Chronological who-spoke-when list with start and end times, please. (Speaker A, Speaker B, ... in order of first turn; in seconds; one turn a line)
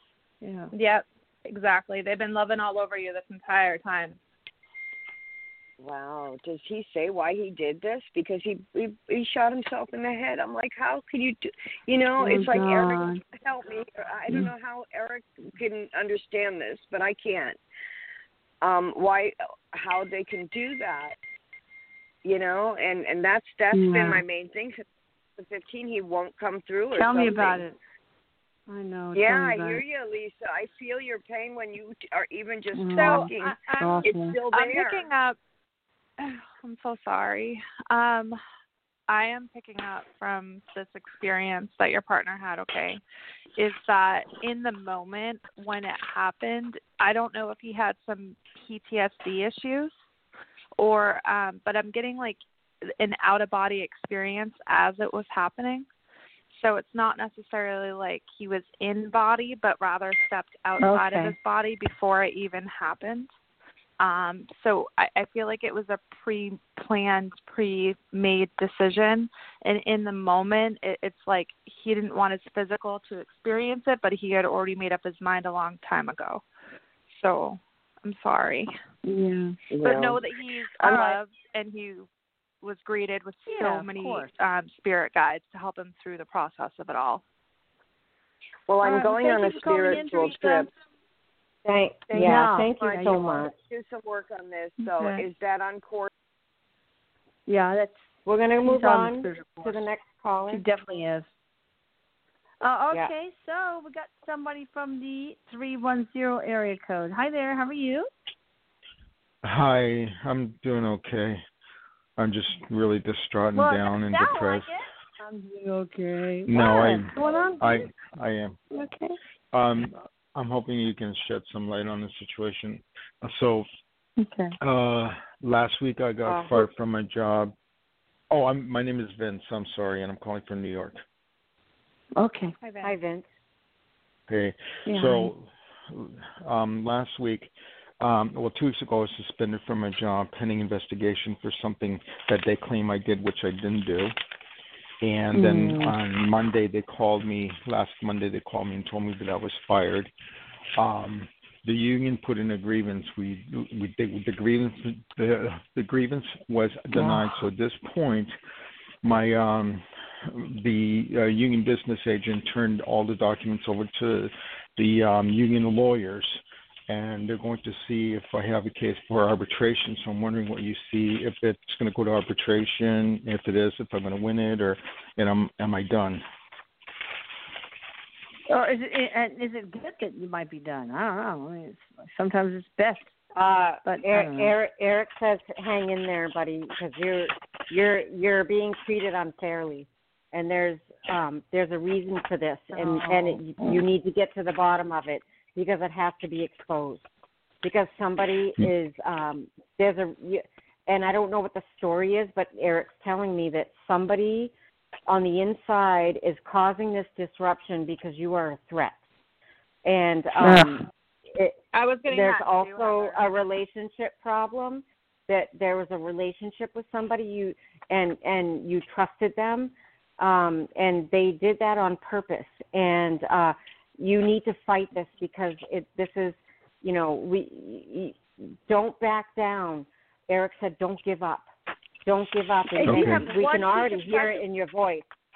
Speaker A: 0.4-0.7
Speaker B: 0.7-4.2
Speaker C: 5.8-17.6
Speaker A: 12.2-13.2
Speaker C: 18.6-21.1
Speaker C: 22.2-24.9
Speaker A: 23.7-24.2
Speaker C: 25.4-27.6
Speaker A: 26.9-27.8
Speaker A: 28.7-29.8
Speaker C: 29.1-35.1
Speaker A: 32.7-34.4
Speaker B: 32.9-35.4
Speaker B: 36.2-38.4
Speaker B: 39.1-43.0
Speaker B: 43.6-49.9
Speaker B: 50.8-55.9
Speaker B: 56.5-63.3
Speaker A: 60.8-61.3
Speaker B: 64.0-76.4
Speaker B: 77.1-78.7
Speaker A: 79.0-79.5
Speaker C: 79.7-80.2
Speaker B: 79.8-82.1
Speaker C: 80.8-81.1
Speaker B: 82.6-87.2
Speaker A: 83.5-84.3
Speaker C: 88.7-90.7
Speaker A: 88.8-90.7
Speaker D: 91.6-93.5
Speaker A: 92.1-93.4
Speaker C: 92.1-96.1
Speaker A: 94.8-95.2
Speaker A: 97.5-98.1
Speaker D: 98.2-100.6
Speaker A: 98.6-99.8
Speaker A: 100.5-101.3
Speaker A: 102.6-108.1
Speaker E: 109.4-111.4
Speaker E: 112.2-114.7
Speaker A: 113.5-117.7
Speaker E: 116.5-118.6
Speaker A: 118.7-119.1
Speaker E: 119.5-123.7
Speaker A: 124.2-124.5
Speaker E: 124.6-127.5
Speaker D: 126.2-126.7
Speaker E: 128.3-131.0
Speaker A: 132.2-132.5
Speaker B: 132.6-132.9
Speaker D: 132.8-133.3
Speaker E: 134.3-144.1
Speaker A: 134.9-135.3
Speaker E: 145.0-150.1
Speaker A: 145.3-145.9
Speaker E: 150.8-158.3
Speaker E: 159.0-176.2
Speaker A: 178.5-183.1
Speaker D: 183.3-197.1
Speaker A: 183.8-184.5
Speaker A: 192.8-193.3
Speaker D: 197.6-204.5
Speaker D: 205.1-209.0
Speaker D: 209.8-231.5
Speaker A: 210.4-210.7
Speaker B: 211.7-213.3
Speaker D: 232.0-235.1
Speaker A: 232.7-234.4
Speaker E: 232.8-233.3